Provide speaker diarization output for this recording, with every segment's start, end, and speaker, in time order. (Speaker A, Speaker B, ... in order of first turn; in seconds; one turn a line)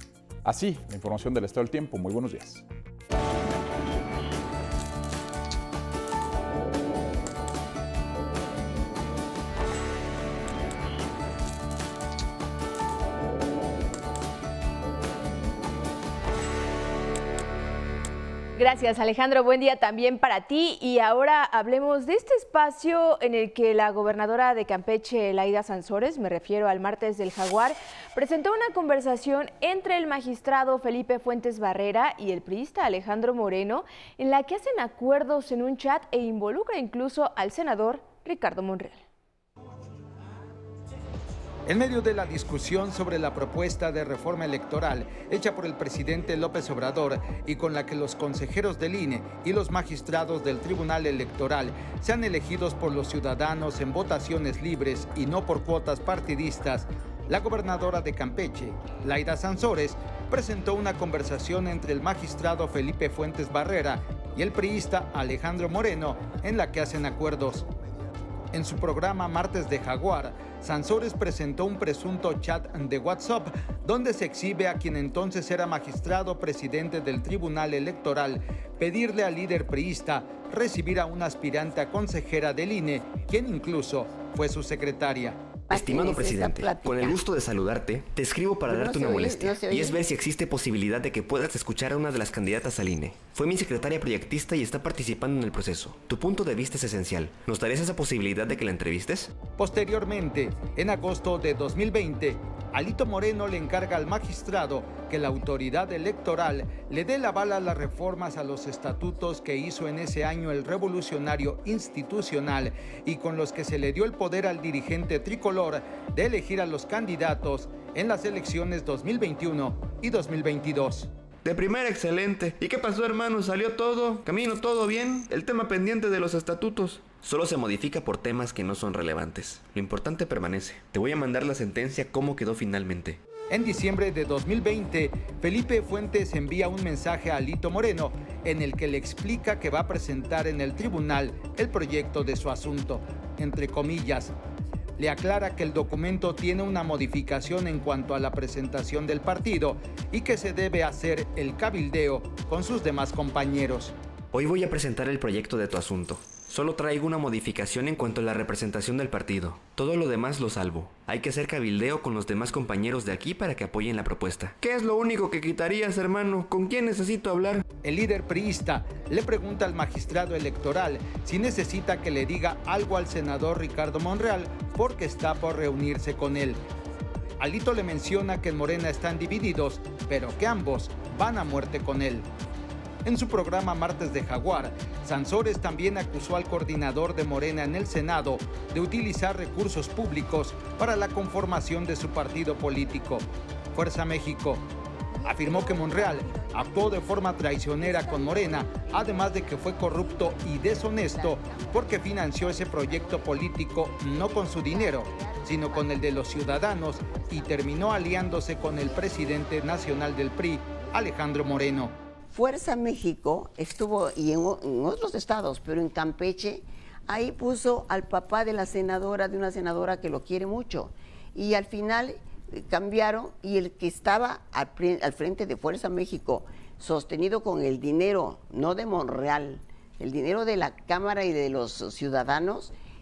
Speaker A: 0.5-2.6
Speaker B: 18.6-39.0
Speaker C: 41.7-67.7
Speaker C: 68.5-85.4
Speaker D: 85.7-87.2
Speaker E: 85.7-99.3
Speaker D: 88.7-90.1
Speaker C: 99.6-121.1
Speaker E: 121.4-133.2
Speaker C: 133.5-144.3
Speaker C: 145.0-153.9
Speaker E: 154.3-167.6
Speaker C: 167.8-176.6
Speaker C: 177.4-182.3
Speaker C: 183.0-194.6
Speaker C: 195.3-211.9
Speaker D: 197.8-199.5
Speaker D: 200.6-208.0
Speaker D: 208.7-209.5
Speaker D: 210.7-211.2
Speaker D: 212.3-232.7